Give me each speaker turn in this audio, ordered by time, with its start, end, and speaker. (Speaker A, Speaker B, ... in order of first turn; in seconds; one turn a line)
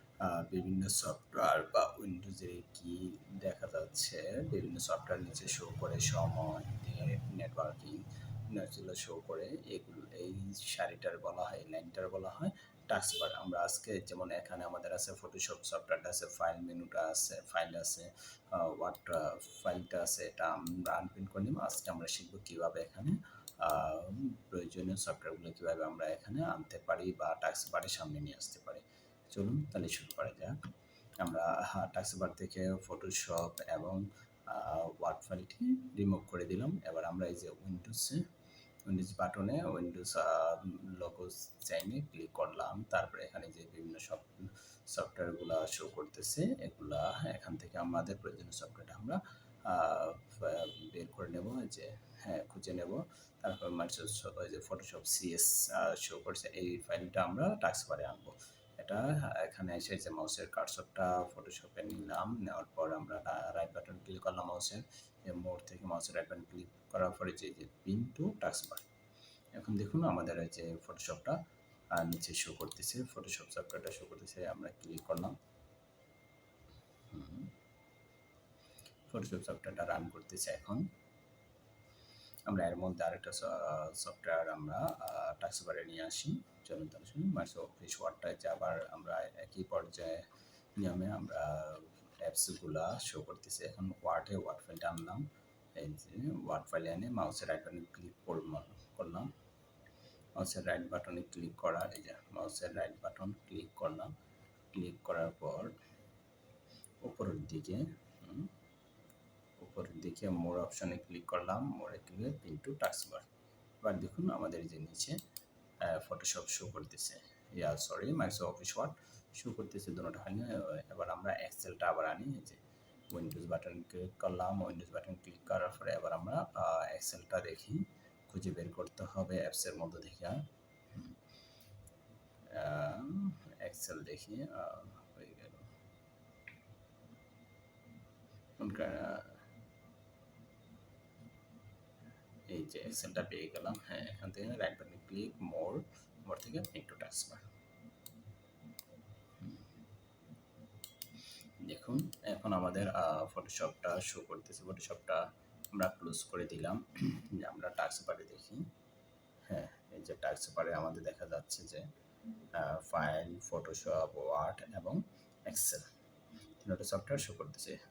Speaker A: 0.2-30.6
Speaker A: 31.2-38.2
Speaker A: 38.9-68.9
Speaker A: 69.5-71.4
Speaker A: 71.9-75.3
Speaker A: 77.1-77.5
Speaker A: 79.1-80.9
Speaker A: 82.5-90.2
Speaker A: 90.8-99.3
Speaker A: 100.3-104.1
Speaker A: 104.7-105.7
Speaker A: 107.0-108.5
Speaker A: 109.6-113.3
Speaker A: 113.8-115.2
Speaker A: 115.8-122.6
Speaker A: 123.1-130.4
Speaker A: 132.5-135.7
Speaker A: 138.6-139.4
Speaker A: 142.5-147.4
Speaker A: 151.6-158.7
Speaker A: 159.5-161.9
Speaker A: 162.5-165.9
Speaker A: 166.6-167.8